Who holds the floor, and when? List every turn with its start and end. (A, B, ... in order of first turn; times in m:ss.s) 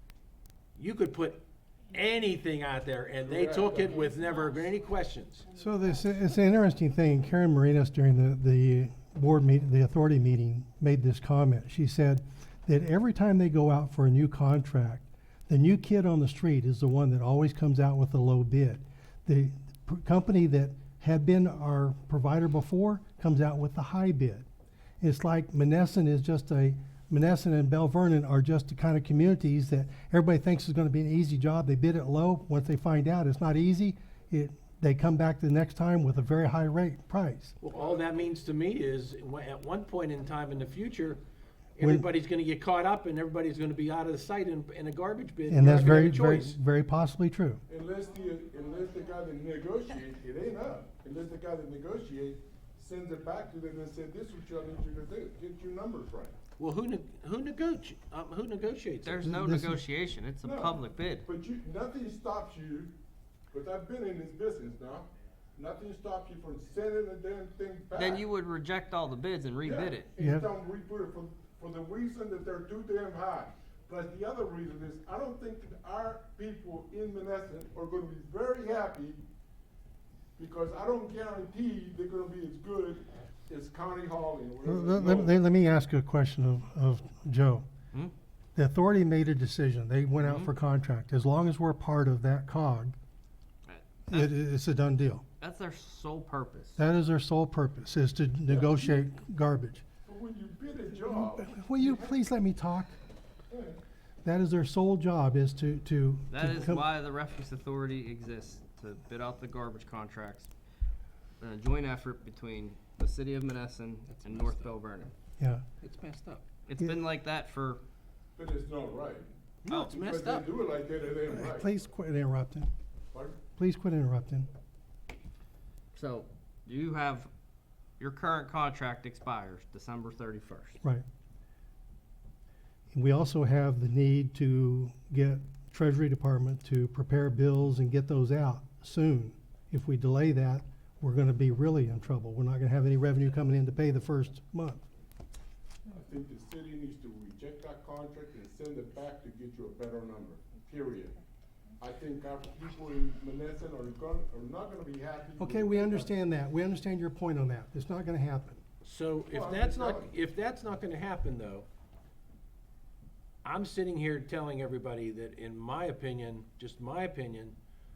0:00.8-0:05.5 A
0:03.2-0:04.1 B
0:05.5-0:24.4 C
0:25.0-0:37.5 C
0:37.6-0:41.2 A
0:37.7-0:38.1 B
0:41.8-0:46.6 A
0:41.8-0:42.0 C
0:45.5-0:47.6 C
0:45.6-0:46.0 B
0:47.7-0:56.4 B
0:56.6-0:59.2 A
0:59.0-1:01.2 D
0:59.2-0:59.8 C
1:00.4-1:02.9 B
1:03.5-1:08.3 B
1:07.9-1:10.1 D
1:09.6-1:19.2 B
1:10.2-1:10.5 C
1:20.4-1:25.4 B
1:24.6-1:27.6 C
1:28.5-1:33.0 C
1:30.2-1:30.5 D
1:33.6-1:34.3 D
1:34.1-1:35.2 C
1:35.4-1:36.8 D
1:36.8-1:39.8 C
1:38.4-1:38.9 B
1:40.0-1:42.2 B
1:41.0-1:42.9 C
1:43.5-1:43.8 B
1:44.2-1:46.8 C
1:46.3-1:50.5 D
1:51.4-1:55.1 D
1:54.2-1:54.7 A
1:55.4-1:55.6 C
1:55.8-1:56.4 A
1:56.6-1:57.8 D
1:58.4-2:01.7 B
1:59.7-2:00.5 A
2:01.3-2:02.7 C
2:03.1-2:03.4 B
2:03.6-2:04.5 C
2:05.9-2:07.3 D
2:08.0-2:10.8 D
2:12.9-2:24.8 C
2:25.9-2:31.2 B
2:31.8-2:36.1 B
2:35.4-2:38.6 C
2:38.8-2:41.6 A
2:39.3-2:40.1 B
2:43.4-2:47.6 A